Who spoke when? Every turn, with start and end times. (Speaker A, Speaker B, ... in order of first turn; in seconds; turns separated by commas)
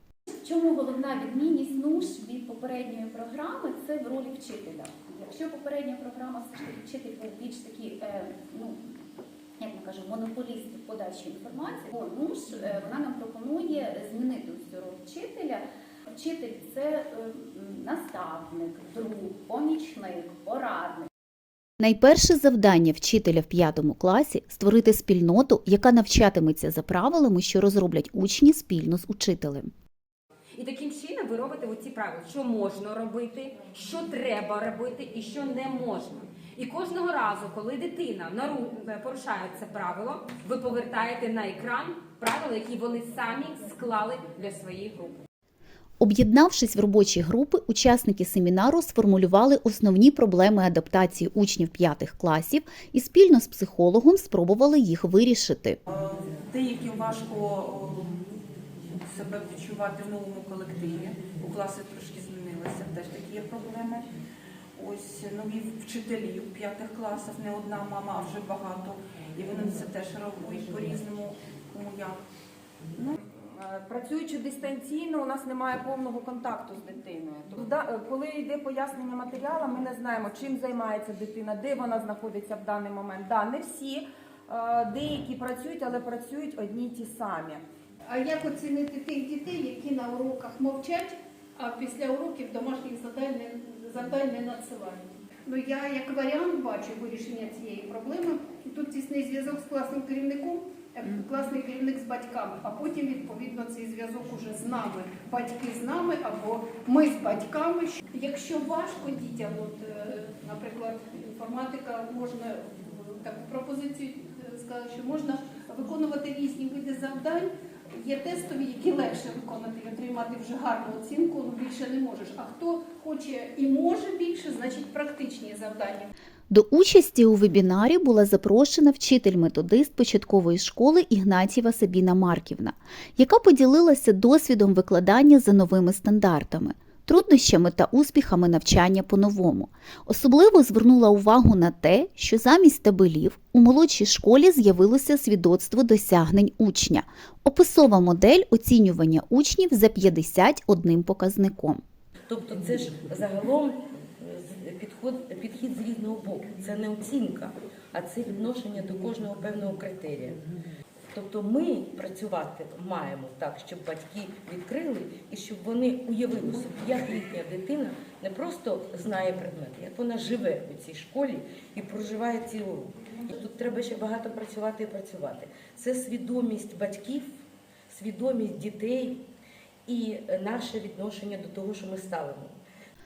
Speaker A: 0.8-8.8, Speaker A: 9.6-15.6, Speaker A: 16.2-20.9, Speaker B: 21.8-29.7, Speaker C: 30.6-45.2, Speaker B: 46.0-55.8, Speaker D: 55.9-58.2, Speaker D: 59.0-64.1, Speaker D: 64.8-72.2, Speaker E: 73.0-87.6, Speaker F: 88.1-126.1, Speaker B: 126.5-151.8, Speaker G: 152.2-160.4, Speaker G: 161.1-177.3, Speaker G: 177.9-179.2, Speaker G: 179.9-182.5